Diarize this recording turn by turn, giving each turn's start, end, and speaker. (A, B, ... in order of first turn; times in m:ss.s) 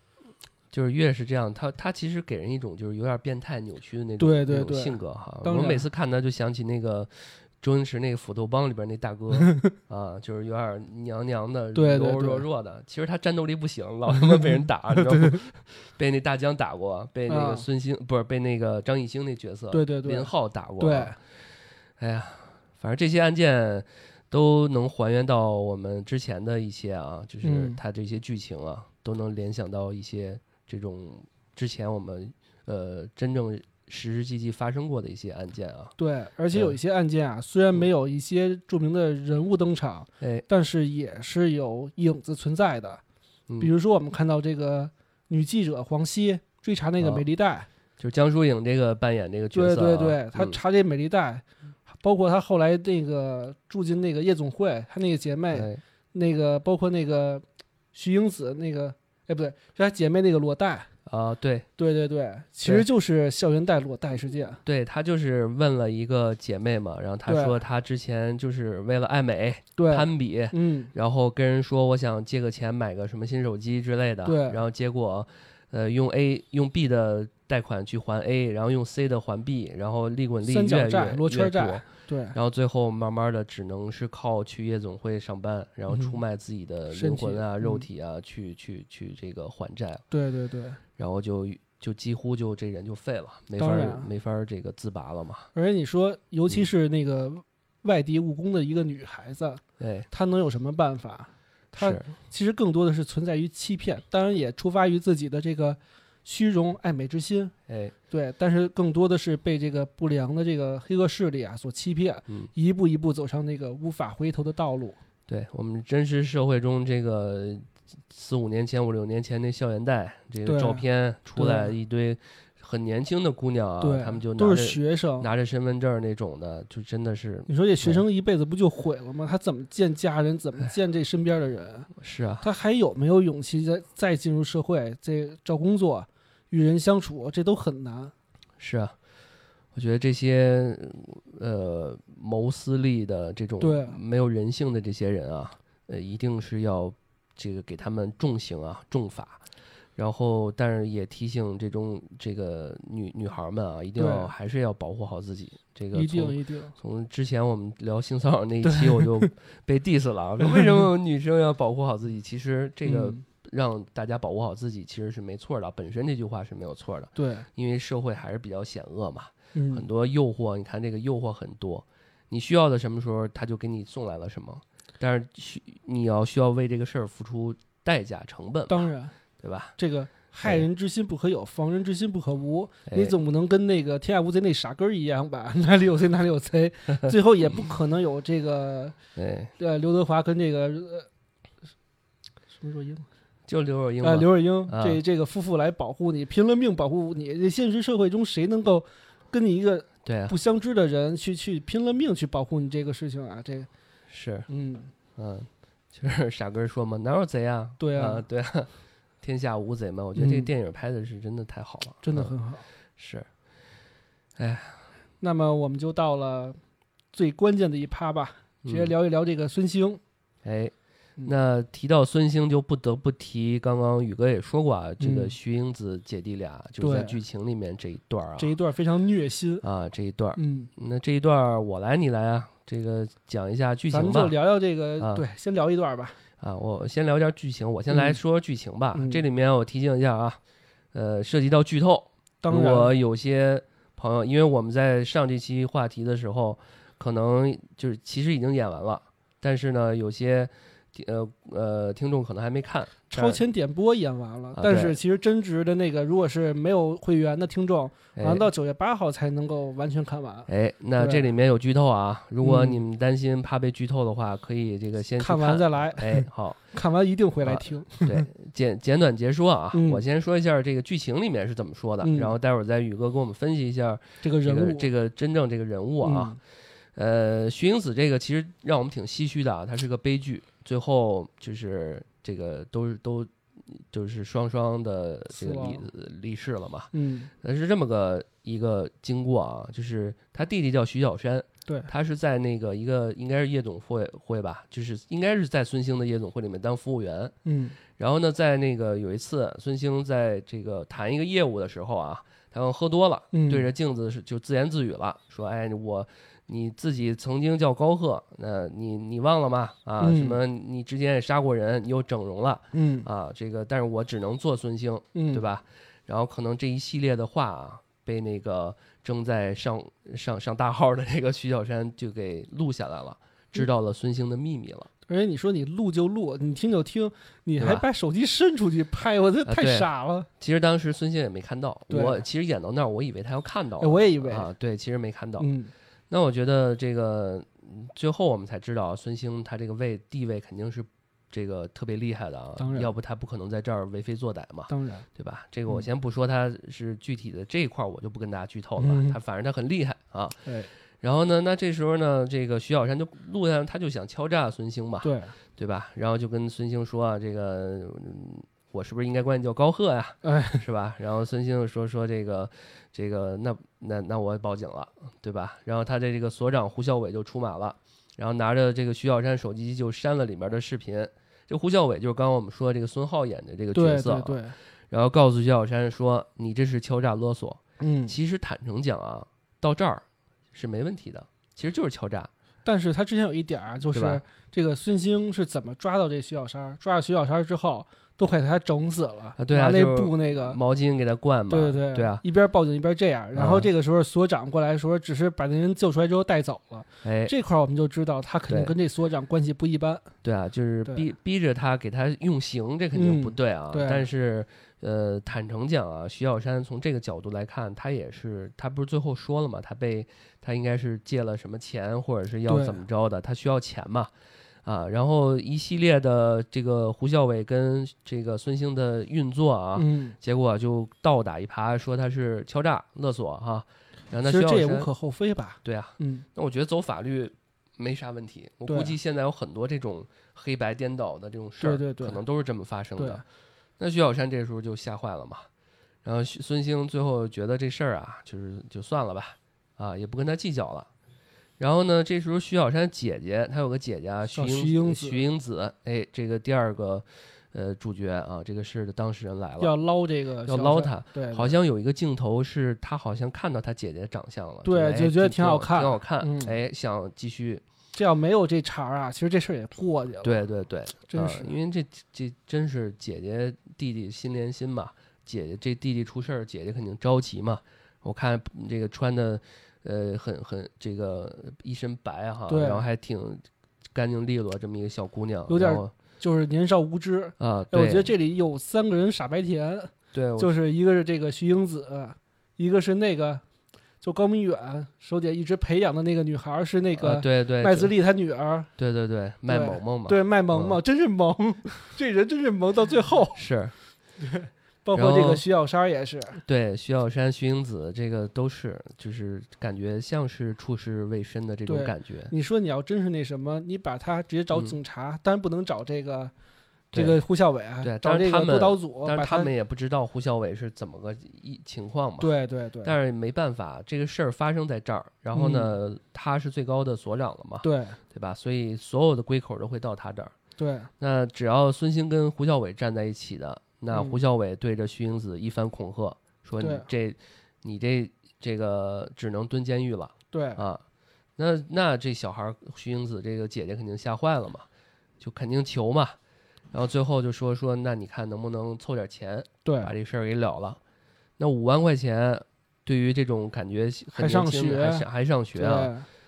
0:00.7-0:21.2 A
0:04.2-0:05.8 B
0:09.4-0:09.7 B
0:11.7-0:12.4 B
0:15.0-0:15.4 B
0:17.3-0:17.6 B
0:19.7-0:21.2 B
0:22.0-0:35.9 A
0:27.4-0:27.8 B
0:36.0-0:43.0 B
0:40.2-0:40.4 A
0:43.6-0:47.7 B
0:47.0-0:47.2 A
0:48.0-0:50.6 A
0:49.5-1:00.9 B
0:55.5-0:55.8 A
1:01.0-1:01.7 A
1:01.8-1:04.6 B
1:04.6-1:30.0 A
1:07.3-1:07.6 B
1:09.8-1:10.9 B
1:14.2-1:14.6 B
1:20.4-1:22.4 B
1:25.9-1:26.2 B
1:26.9-1:27.8 B
1:30.1-1:30.8 B
1:31.0-1:35.5 A
1:33.6-1:34.1 B
1:35.5-1:47.5 B
1:39.8-1:40.1 A
1:41.7-1:42.1 A
1:47.7-1:47.9 A
1:48.1-1:55.0 B
1:55.3-2:08.0 A
2:00.4-2:00.8 B
2:01.4-2:01.7 B
2:03.8-2:05.3 B
2:07.5-2:11.9 B
2:12.0-2:12.5 A
2:12.4-2:18.1 B
2:18.6-2:19.0 A
2:19.7-2:29.4 A
2:23.6-2:24.0 B
2:30.0-2:58.9 A
2:34.0-2:34.3 B
2:35.9-2:36.8 B
2:38.6-2:39.3 B
2:40.4-2:40.8 B
2:42.8-2:43.2 B
2:47.2-2:47.5 B
2:49.5-2:49.8 B
2:58.7-2:59.2 B
2:59.4-2:59.8 A
2:59.8-3:09.0 B
3:02.9-3:03.1 A
3:09.2-3:09.5 A
3:09.6-3:11.1 B
3:12.5-3:13.0 B
3:13.5-3:15.0 A
3:14.0-3:23.7 B
3:20.0-3:20.4 A
3:24.1-3:24.5 A
3:24.5-3:24.9 B
3:25.2-3:32.3 A
3:27.8-3:28.2 B
3:30.2-3:30.5 B
3:32.0-3:32.7 B
3:33.0-3:33.3 A
3:34.4-3:34.8 A
3:35.2-3:36.6 B
3:37.1-3:40.0 B
3:38.6-3:38.9 A
3:40.4-3:48.6 A
3:45.0-3:45.3 B
3:46.8-3:47.2 B
3:48.4-3:49.6 B
3:49.6-3:54.3 A
3:50.4-3:50.7 B
3:53.9-3:56.2 B
3:55.0-3:55.2 A
3:56.4-4:00.4 A
3:57.9-3:58.2 B
3:58.9-3:59.2 B
4:00.9-4:13.4 A
4:02.4-4:02.9 B
4:13.1-4:21.3 B
4:14.5-4:15.0 A
4:18.2-4:18.5 A
4:20.5-4:26.7 A
4:22.4-4:22.8 B
4:25.2-4:28.3 B
4:27.4-4:36.4 A
4:29.7-4:30.0 B
4:32.0-4:32.3 B
4:34.2-4:34.9 B
4:36.0-4:36.4 B
4:36.9-4:57.3 A
4:45.3-4:45.8 B
4:46.9-4:47.3 B
4:57.4-4:57.8 B
4:57.9-5:24.9 A
5:03.3-5:03.7 B
5:10.0-5:10.4 B
5:12.7-5:13.1 B
5:15.1-5:15.4 B
5:25.1-5:30.3 B
5:27.6-5:27.8 A
5:29.4-5:35.5 A
5:31.9-5:32.2 B
5:33.8-5:34.5 B
5:35.4-5:35.7 B
5:36.1-6:22.3 A
5:42.6-5:42.9 B
5:44.7-5:45.0 B
5:48.8-5:49.2 B
5:55.0-5:55.3 B
6:00.2-6:00.6 B
6:13.7-6:14.5 B
6:17.8-6:18.1 B
6:22.6-6:30.6 B
6:23.9-6:24.2 A
6:29.4-6:32.2 A
6:31.5-6:40.1 B
6:33.3-6:33.7 A
6:37.0-6:37.3 A
6:38.5-6:38.7 A
6:40.2-6:54.1 A
6:42.9-6:44.1 B
6:52.5-6:52.8 B
6:54.6-7:04.9 A
6:59.7-7:00.2 B
7:04.2-7:06.2 B
7:05.6-7:13.2 A
7:08.7-7:09.0 B
7:11.6-7:12.2 B
7:13.0-7:13.2 B
7:13.8-7:15.5 A
7:16.0-7:20.9 A
7:21.6-7:29.7 A
7:24.3-7:25.2 B
7:29.6-7:31.5 B
7:30.4-7:37.6 A
7:34.6-7:36.5 B
7:37.9-7:40.4 B
7:40.2-7:55.9 A
7:41.1-7:41.5 B
7:52.5-7:52.8 B
7:55.5-8:03.4 B
7:57.4-7:58.1 A
8:00.1-8:00.5 A
8:04.0-8:08.7 B
8:07.0-8:07.9 A
8:08.8-8:10.8 A
8:09.5-8:13.4 B
8:13.3-8:13.7 A
8:14.2-8:16.4 B
8:14.9-8:15.4 A
8:16.4-8:22.3 A
8:21.7-8:26.3 B
8:26.9-8:27.2 A
8:26.9-8:29.5 B
8:27.8-8:32.3 A
8:32.2-8:32.9 B
8:32.8-8:40.3 A
8:35.3-8:35.7 B
8:37.6-8:38.0 B
8:40.6-8:40.9 B
8:41.0-8:50.8 A
8:43.9-8:44.2 B
8:46.6-8:46.9 B
8:50.3-8:50.6 B
8:51.4-8:54.7 A
8:55.2-8:56.2 A
8:56.7-9:00.8 A
8:59.6-8:59.9 B
9:01.4-9:05.9 A
9:04.1-9:06.1 B